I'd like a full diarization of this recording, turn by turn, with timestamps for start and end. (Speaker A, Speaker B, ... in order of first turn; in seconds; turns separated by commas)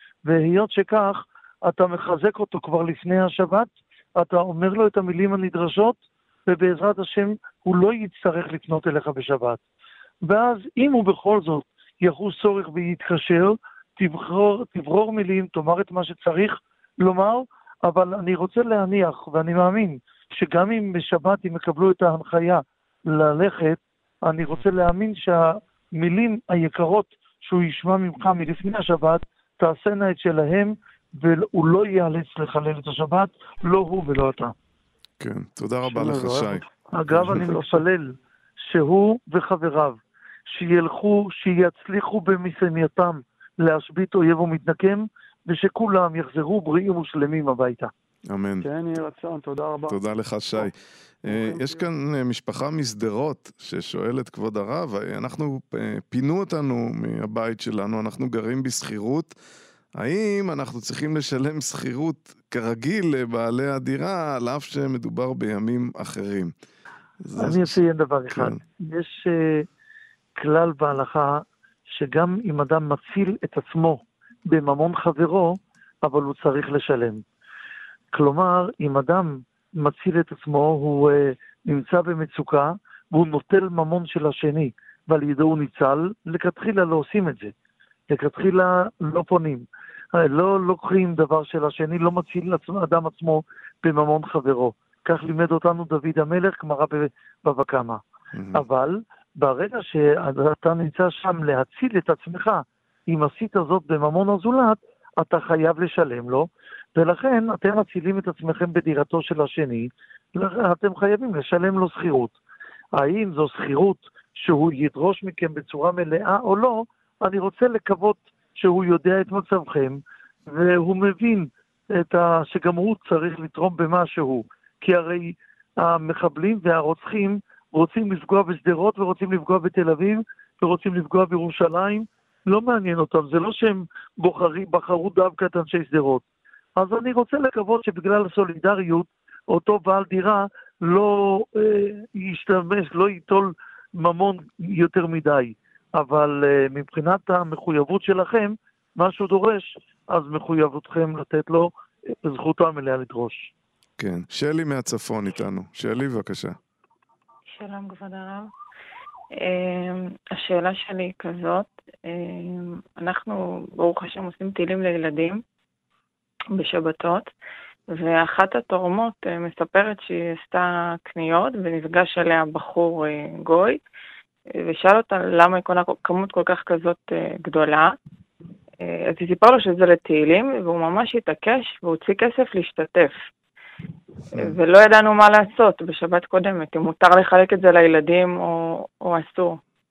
Speaker A: 0.2-6.0, Speaker A: 6.5-9.6, Speaker A: 10.2-34.5, Speaker B: 35.2-36.6, Speaker C: 35.9-36.6, Speaker A: 36.9-40.0, Speaker C: 37.1-37.8, Speaker A: 40.5-47.9, Speaker B: 48.3-48.7, Speaker C: 48.6-50.0, Speaker B: 49.9-50.7, Speaker B: 51.2-59.3, Speaker C: 51.3-51.8, Speaker B: 60.0-66.5, Speaker B: 67.2-68.6, Speaker A: 67.4-69.7, Speaker A: 70.4-77.2, Speaker A: 78.1-87.5, Speaker A: 88.1-98.0, Speaker B: 98.3-98.6, Speaker A: 98.5-112.4, Speaker A: 113.0-136.2, Speaker A: 136.8-151.7, Speaker A: 152.2-153.5, Speaker B: 154.0-156.6, Speaker D: 157.5-158.5, Speaker D: 159.3-165.4, Speaker D: 166.5-167.3, Speaker D: 167.9-173.8, Speaker D: 174.5-178.0, Speaker D: 178.8-183.2, Speaker D: 184.3-189.6